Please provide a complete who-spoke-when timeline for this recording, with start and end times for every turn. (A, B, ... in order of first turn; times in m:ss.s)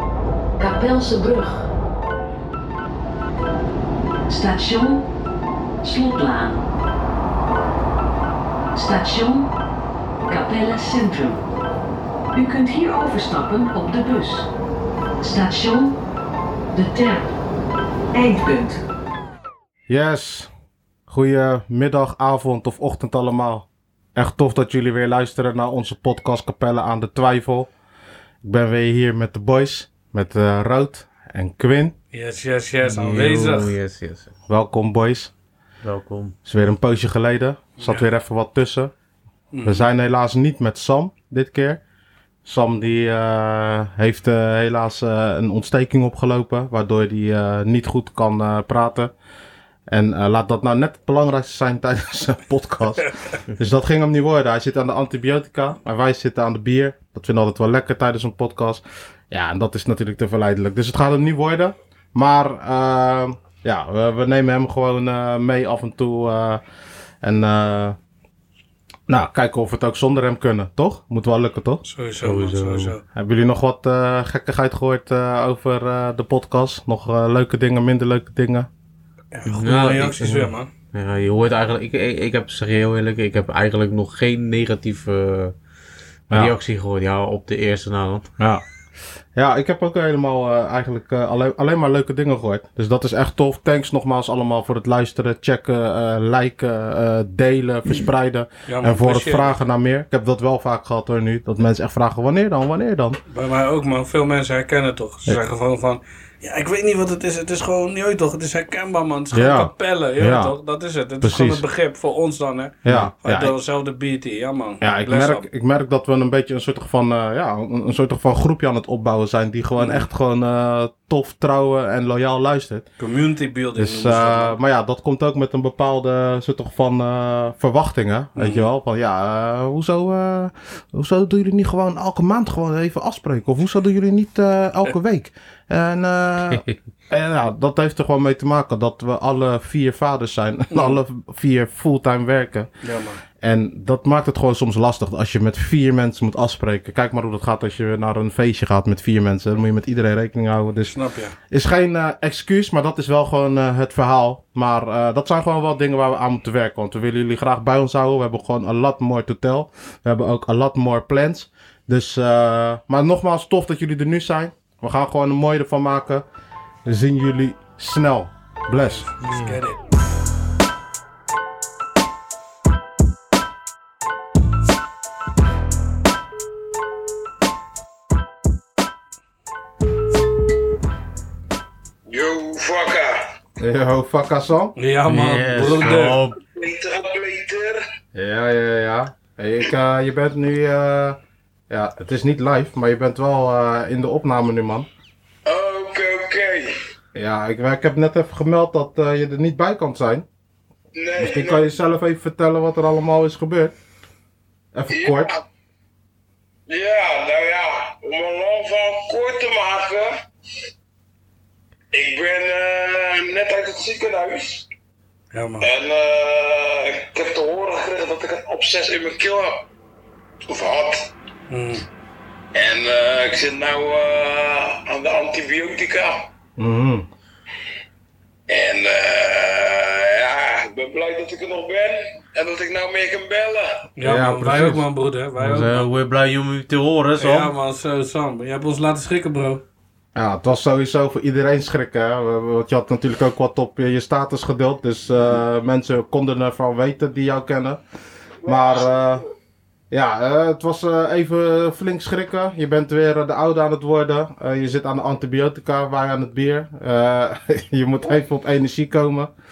0:00.6-0:01.7 A
0:04.3-0:05.0 A
0:05.8-0:06.6 A
0:08.7-0:09.5 A
0:10.3-0:11.4 A
0:12.3-0:14.5 A
0:15.2-0:16.0 A
0:16.7-0:17.3 A
0:18.1-0:18.8 A
0:19.9-0:20.5 B
0:21.1-0:27.7 B
0:28.4-0:31.9 B
0:32.1-0:33.7 C
0:32.8-0:34.3 D
0:34.5-0:35.3 B
0:35.8-0:36.3 D
0:36.4-0:38.9 B
0:37.8-0:38.0 C
0:39.5-0:39.9 C
0:39.6-0:41.8 B
0:42.4-0:49.1 B
0:49.9-1:06.6 B
1:07.2-1:08.0 B
1:09.1-1:11.8 B
1:11.8-1:13.0 C
1:12.2-1:12.9 D
1:13.1-1:18.7 B
1:19.3-1:20.7 C
1:19.4-1:25.5 D
1:26.3-1:28.3 D
1:29.3-1:43.2 B
1:38.7-1:39.5 C
1:43.3-1:55.4 C
1:49.3-1:50.5 B
1:51.2-1:51.6 B
1:52.8-1:53.5 B
1:52.8-1:53.1 D
1:54.8-2:02.8 B
1:59.8-2:00.0 C
2:03.0-2:04.6 C
2:03.8-2:22.7 B
2:08.4-2:08.7 C
2:20.7-2:21.0 C
2:22.8-2:23.2 C
2:23.4-2:46.2 B
2:30.9-2:31.3 C
2:46.8-2:49.1 B
2:48.9-2:49.8 C
2:49.2-2:49.6 D
3:02.1-3:03.2 E
3:03.6-3:04.7 B
3:04.8-3:06.2 C
3:05.1-3:06.4 D
3:06.4-3:07.8 E
3:08.1-3:11.2 B
3:11.7-3:14.9 B
3:15.4-3:16.7 E
3:17.1-3:20.2 B
3:20.9-3:21.7 E
3:21.2-3:23.7 B
3:24.7-3:25.3 B
3:24.9-3:25.4 E
3:26.7-3:30.1 E
3:31.9-3:34.6 E
3:35.3-3:35.7 C
3:35.6-3:39.6 E
3:40.5-3:41.1 E
3:41.5-3:41.8 C
3:42.5-3:46.2 E
3:46.6-3:47.1 B
3:48.5-3:53.8 E
3:54.0-3:55.9 C
3:54.0-3:54.8 B
3:55.4-3:57.5 D
3:57.2-3:59.6 C
4:00.1-4:07.8 B
4:08.4-4:09.2 B
4:08.4-4:08.9 E
4:09.9-4:19.3 B